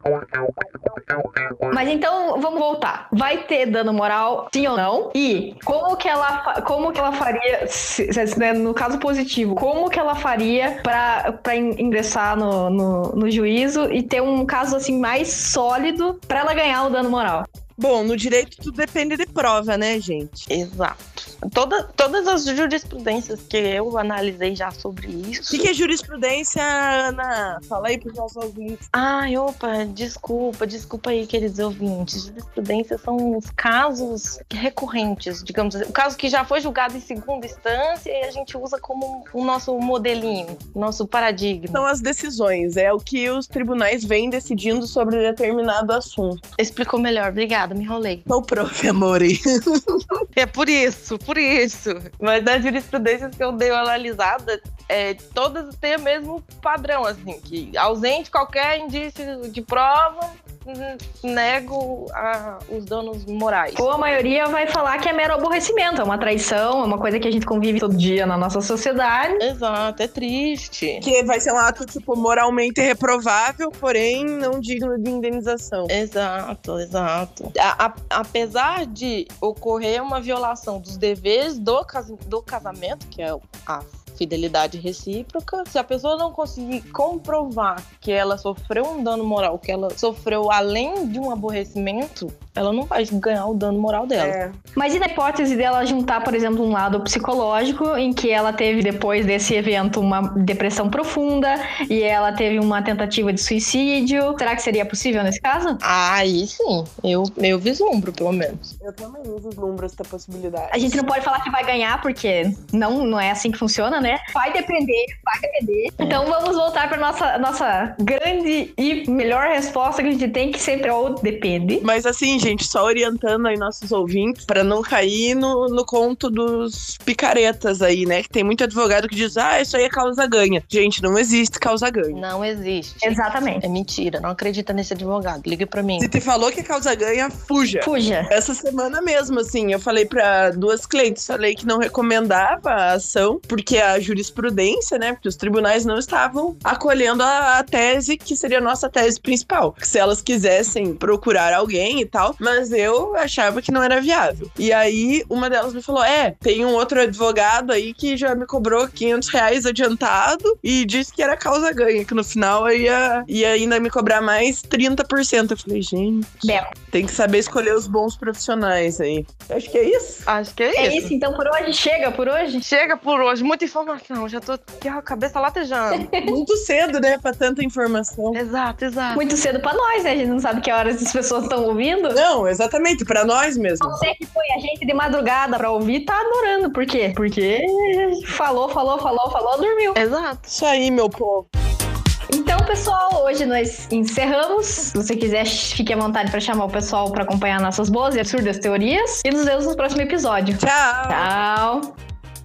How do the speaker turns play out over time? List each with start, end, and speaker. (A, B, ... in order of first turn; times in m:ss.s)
0:01.7-0:17.5 A
0:17.8-0:20.5 B
0:20.5-0:25.7 C
0:25.5-0:28.8 B
0:28.9-0:41.9 C
0:41.7-0:46.4 B
0:46.6-0:48.3 C
0:48.3-0:50.0 B
0:50.4-1:03.9 C
1:03.8-1:09.4 A
1:09.4-1:11.1 C
1:11.0-1:15.9 B
1:15.9-1:34.4 C
1:34.2-1:34.6 B
1:34.8-1:45.8 A
1:45.8-1:48.7 C
1:48.8-1:51.0 B
1:50.7-2:01.9 A
2:01.8-2:12.2 B
2:12.1-2:16.1 C
2:13.0-2:13.6 A
2:16.0-2:50.3 B
2:17.8-2:18.3 A
2:46.4-2:46.7 A
2:50.3-2:51.1 C
2:50.8-2:52.6 A
2:52.6-2:56.1 C
2:55.9-2:56.4 A
2:56.2-2:58.4 B
2:58.3-2:59.2 C
2:59.1-3:02.2 A
3:02.1-3:04.0 B
3:03.8-3:10.0 A
3:10.0-3:10.5 C
3:10.5-3:11.5 B
3:12.3-3:22.0 A
3:20.6-3:21.3 B